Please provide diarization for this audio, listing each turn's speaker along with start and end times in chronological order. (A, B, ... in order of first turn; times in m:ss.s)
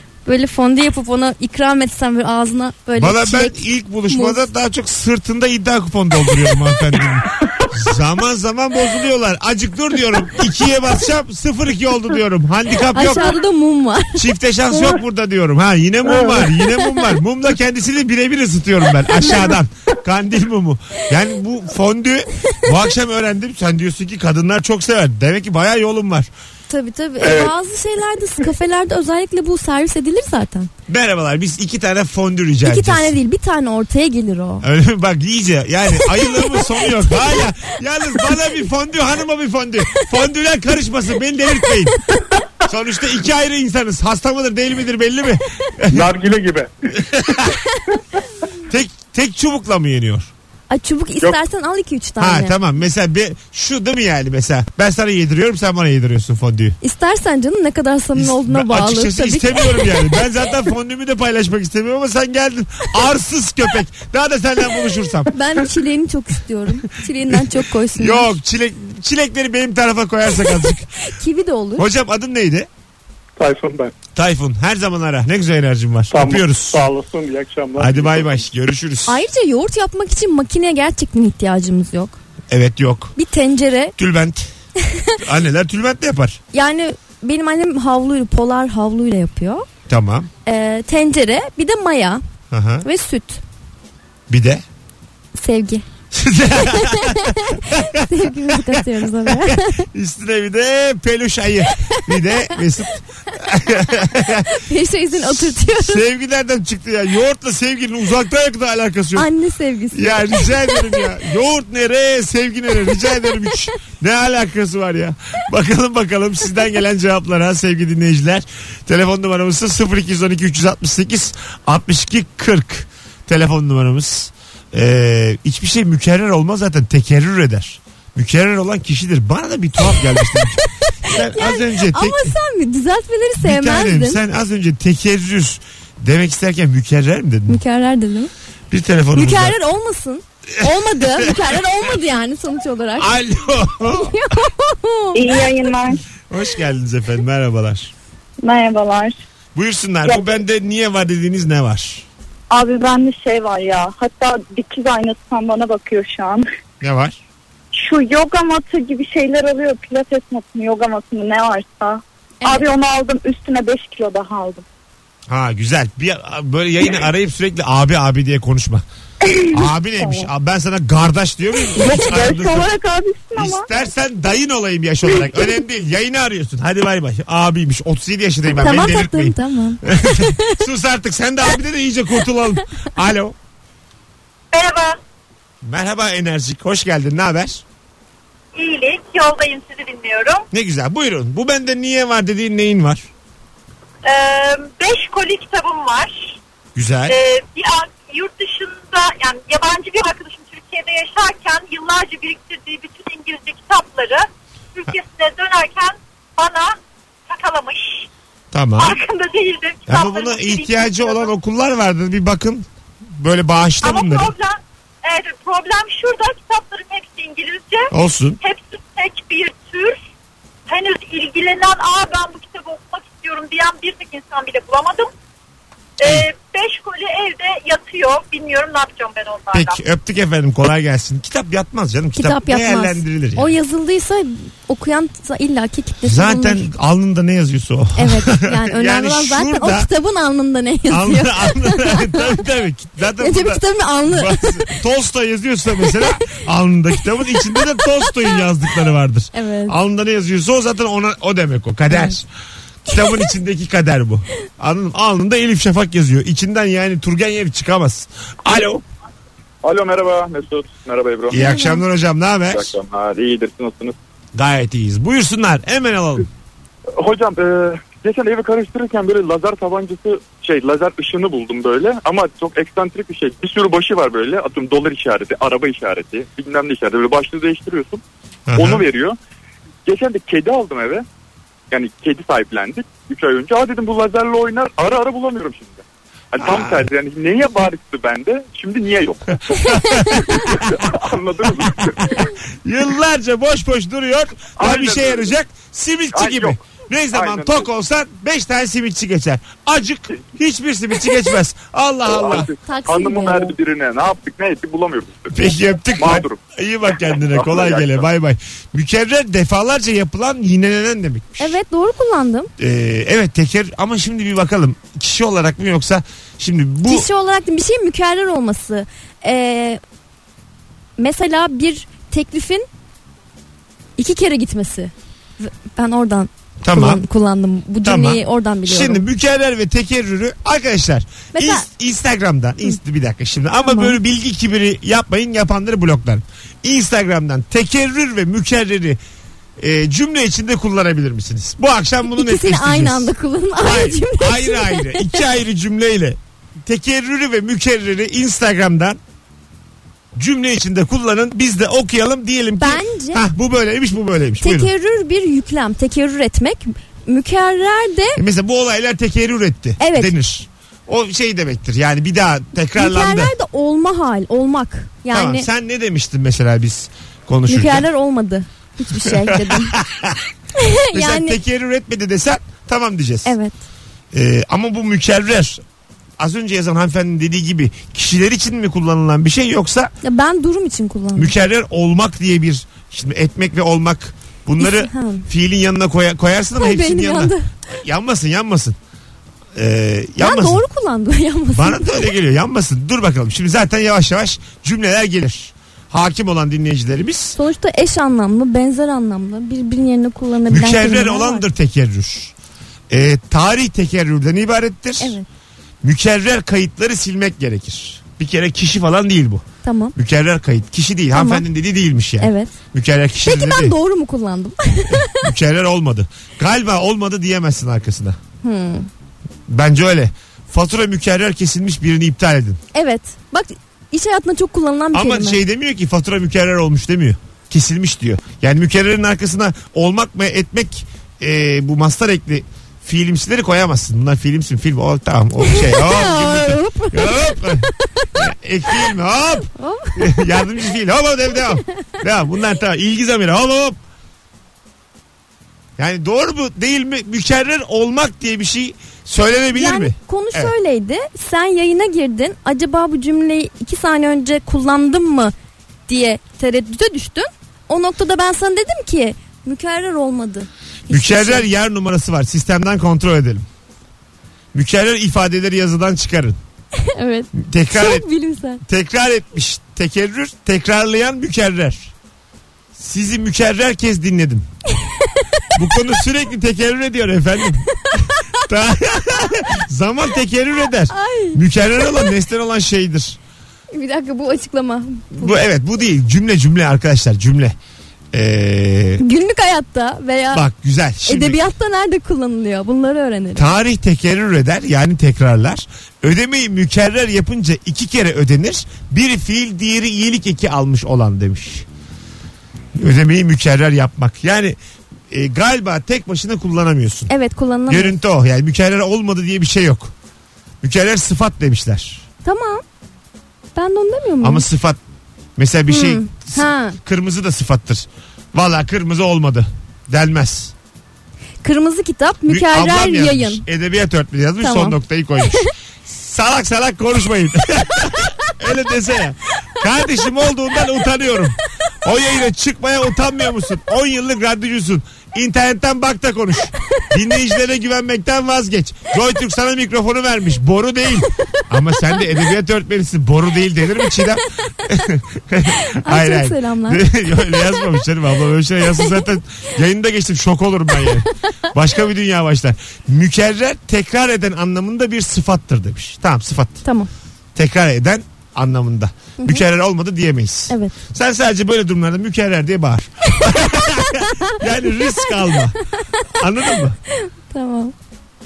0:00.2-0:04.4 A
0:03.0-0:13.4 B
0:12.9-0:15.0 A
0:14.1-0:26.3 B
0:16.1-0:16.5 C
0:16.2-0:17.1 A
0:19.2-0:19.5 A
0:26.7-0:30.7 A
0:27.2-0:27.5 C
0:30.9-0:33.2 B
0:32.6-0:34.6 A
0:34.6-0:42.0 B
0:36.1-0:37.5 A
0:42.7-0:46.1 B
0:45.9-0:46.7 C
0:47.0-0:47.5 B
0:48.7-0:50.3 B
0:50.7-0:52.6 A
0:52.2-0:56.8 B
0:56.8-1:00.2 A
0:58.1-1:05.3 B
1:05.3-1:08.4 A
1:07.9-1:10.9 B
1:10.5-1:11.8 A
1:11.8-1:12.7 B
1:13.4-1:13.9 C
1:14.1-1:16.8 B
1:16.1-1:18.4 C
1:17.8-1:19.2 B
1:19.0-1:22.2 A
1:22.5-1:23.1 B
1:23.2-1:23.9 A
1:24.0-1:24.5 B
1:24.9-1:25.2 A
1:25.2-1:26.4 B
1:26.5-1:29.6 A
1:29.9-1:30.3 B
1:30.4-1:32.2 A
1:32.5-1:32.8 B
1:32.8-1:33.4 A
1:34.3-1:34.6 B
1:35.4-1:35.8 A
1:36.1-1:44.5 B
1:36.7-1:39.9 A
1:41.8-1:42.4 A
1:44.5-1:46.0 A
1:45.2-1:49.3 B
1:49.2-1:51.1 A
1:49.9-2:12.3 B
2:11.1-2:14.2 A
2:13.4-2:17.6 B
2:17.5-2:18.3 A
2:18.7-2:19.6 B
2:19.1-2:23.1 A
2:20.6-2:21.4 B
2:23.0-2:24.2 B
2:23.9-2:25.4 A
2:25.2-2:26.0 D
2:26.3-2:27.9 B
2:28.4-2:29.2 D
2:29.5-2:32.0 B
2:30.0-2:30.3 D
2:32.5-2:36.4 D
2:36.8-2:37.2 B
2:37.7-2:44.6 D
2:45.3-2:48.8 B
2:49.2-2:50.3 D
2:49.5-2:52.7 B
2:51.7-2:53.7 D
2:53.4-3:03.4 B
2:58.5-3:00.6 A
3:04.5-3:05.0 E
3:05.6-3:07.6 B
3:08.5-3:10.4 E
3:10.5-3:13.1 B
3:14.0-3:16.4 E
3:16.7-3:17.2 B
3:17.1-3:26.8 E
3:27.3-3:28.1 E
3:28.5-3:29.0 B
3:28.8-3:31.3 E
3:29.9-3:34.3 B
3:33.8-3:40.0 E
3:37.9-3:38.4 B
3:40.7-3:45.1 E
3:46.0-3:49.8 E
3:49.5-3:53.5 B
3:52.2-3:56.7 A
3:56.0-3:59.9 B
3:58.0-4:02.3 A
4:00.9-4:12.2 B
4:03.2-4:04.8 A
4:05.9-4:06.4 A
4:07.0-4:07.8 A
4:09.3-4:09.8 A
4:11.9-4:12.2 A
4:12.8-4:18.8 B
4:19.6-4:21.4 F
4:21.3-4:22.8 B
4:21.3-4:21.8 A
4:22.5-4:23.9 F
4:24.3-4:26.3 B
4:27.0-4:38.0 F
4:38.5-4:38.9 B
4:38.5-4:39.2 F
4:39.8-4:41.0 F
4:41.7-4:52.3 F
4:46.4-4:46.9 B
4:49.7-4:50.9 B
4:51.6-5:02.5 B
4:54.6-4:55.3 F
4:56.1-4:57.7 F
5:02.0-5:06.4 F
5:02.6-5:03.5 A
5:05.3-5:11.6 B
5:07.3-5:08.0 F
5:11.4-5:12.5 A
5:12.6-5:17.1 B
5:16.8-5:19.8 A
5:21.0-5:22.7 A
5:24.0-5:29.0 A
5:26.6-5:27.0 B
5:27.8-5:39.0 B
5:31.3-5:31.7 A
5:33.6-5:34.0 A
5:39.6-5:49.0 B
5:42.1-5:45.2 A
5:50.1-5:54.7 B
5:52.6-5:53.2 A
5:54.4-5:58.2 A
5:58.2-6:03.3 B
5:59.8-6:00.1 A
6:02.8-6:05.5 A
6:05.1-6:07.8 B
6:07.5-6:09.7 A
6:08.9-6:10.2 B
6:10.6-6:11.4 A
6:10.9-6:13.3 B
6:13.2-6:13.6 A
6:14.1-6:15.6 B
6:16.2-6:19.9 B
6:20.0-6:21.3 A
6:21.1-6:28.8 B
6:24.6-6:25.3 A
6:26.6-6:27.4 A
6:29.5-6:30.6 B
6:30.2-6:32.1 A
6:31.5-6:37.4 B
6:37.4-6:41.4 A
6:40.5-6:42.3 B
6:42.9-6:45.2 B
6:45.0-6:45.2 A
6:45.8-6:53.7 B
6:49.6-6:49.9 A
6:51.1-6:51.4 A
6:52.2-6:52.5 A
6:53.2-6:55.2 A
6:54.9-6:58.2 B
6:58.4-6:58.9 A
6:59.5-7:02.6 B
7:02.7-7:05.4 A
7:04.9-7:23.8 B
7:15.4-7:18.9 A
7:19.4-7:20.4 A
7:25.8-7:30.5 B
7:29.5-7:35.3 A
7:35.9-7:41.4 A
7:40.9-7:43.4 B
7:44.5-7:46.4 B
7:46.8-7:48.6 A
7:47.3-7:48.0 B
7:48.6-7:51.9 B
7:52.8-7:54.4 B
7:55.5-8:03.2 B
8:00.9-8:01.4 A
8:03.7-8:05.4 A
8:05.1-8:07.5 B
8:08.1-8:09.0 B
8:09.0-8:10.4 A
8:10.3-8:11.4 B
8:11.0-8:13.4 A
8:13.3-8:21.6 B
8:22.7-8:24.6 B
8:25.1-8:27.1 B
8:27.1-8:28.0 A
8:27.7-8:29.9 B
8:30.6-8:32.0 B
8:32.2-8:32.6 A
8:33.5-8:34.4 A
8:34.2-8:34.8 B
8:35.4-8:40.5 B
8:35.7-8:36.8 A
8:41.4-8:43.4 A
8:42.3-9:16.6 B
8:44.4-8:44.8 A
9:05.8-9:06.8 A
9:17.3-9:25.6 B
9:20.5-9:20.7 A
9:26.2-9:26.8 B
9:26.9-9:27.7 A